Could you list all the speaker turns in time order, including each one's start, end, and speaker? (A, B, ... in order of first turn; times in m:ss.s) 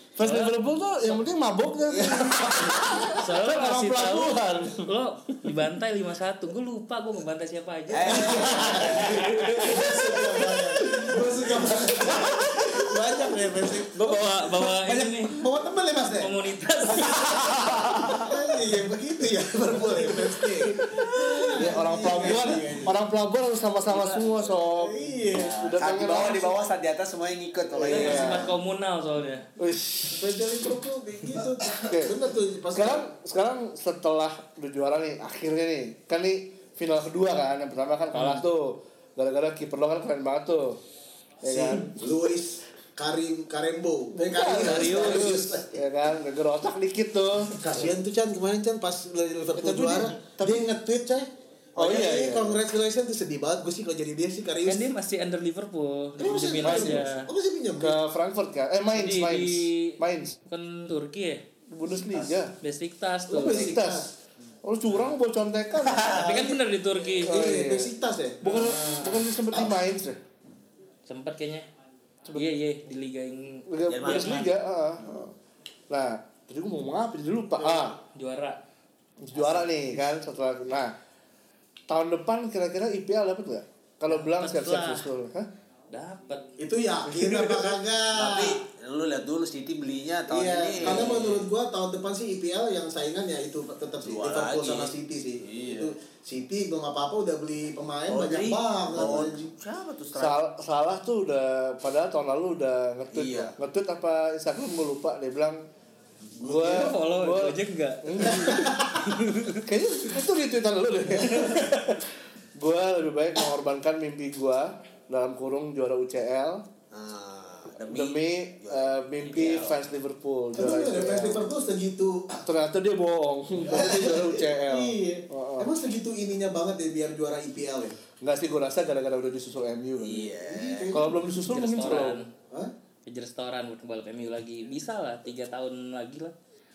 0:00.2-0:04.9 A
0:00.2-0:00.6 B
0:02.0-0:03.1 C
0:03.1-0:10.0 B
0:05.4-0:05.7 A
0:07.9-0:09.5 D
0:08.0-0:16.4 C
0:09.4-0:12.6 A
0:13.9-0:15.5 B
0:16.1-0:18.2 B
0:17.0-0:18.3 D
0:17.0-0:23.0 C
0:20.3-0:21.0 B
0:21.1-0:21.8 D
0:21.6-0:26.6 A
0:23.9-0:24.3 D
0:24.5-0:25.6 C
0:25.3-0:28.4 D
0:27.8-0:28.5 C
0:27.8-0:28.5 A
0:27.8-0:29.5 B
0:29.6-0:30.5 A
0:30.1-0:33.1 C
0:31.8-0:32.2 A
0:32.7-0:40.8 A
0:38.1-0:38.4 B
0:41.4-0:42.0 A
0:41.4-0:45.8 C
0:44.1-0:47.6 A
0:44.5-0:45.6 B
0:47.5-0:54.9 C
0:49.6-0:50.6 A
0:51.8-0:52.6 A
0:54.6-0:57.3 B
0:56.2-0:58.0 C
0:56.6-0:57.1 A
0:57.8-1:00.4 A
0:59.0-1:01.4 B
1:01.7-1:02.5 A
1:02.6-1:03.7 B
1:03.3-1:04.1 C
1:03.4-1:04.1 A
1:04.6-1:06.1 A
1:04.9-1:05.1 B
1:05.8-1:06.2 D
1:06.1-1:07.4 B
1:06.1-1:09.7 C
1:07.2-1:10.2 A
1:08.6-1:09.0 B
1:11.1-1:11.7 B
1:12.3-1:14.5 B
1:13.7-1:15.3 A
1:13.9-1:14.5 D
1:15.9-1:18.0 A
1:17.6-1:18.0 C
1:18.1-1:18.6 B
1:19.2-1:20.9 A
1:21.9-1:25.5 A
1:24.1-1:25.1 B
1:25.9-1:26.6 B
1:26.6-1:28.6 C
1:28.2-1:31.5 D
1:30.3-1:39.5 C
1:30.9-1:31.4 B
1:34.0-1:35.9 D
1:38.1-1:40.4 D
1:40.1-1:45.6 A
1:43.1-1:43.5 D
1:46.4-1:47.0 C
1:46.4-1:48.8 A
1:46.5-1:49.6 B
1:48.3-1:49.0 C
1:49.6-1:52.1 A
1:51.2-1:51.6 B
1:52.6-1:56.7 A
1:56.9-1:59.7 D
1:57.9-2:01.5 A
1:59.2-1:59.8 B
2:00.6-2:02.4 C
2:02.4-2:05.7 A
2:03.6-2:08.0 C
2:08.2-2:10.3 A
2:10.0-2:11.0 D
2:10.4-2:11.0 C
2:10.9-2:12.2 A
2:11.4-2:12.3 B
2:13.1-2:16.4 B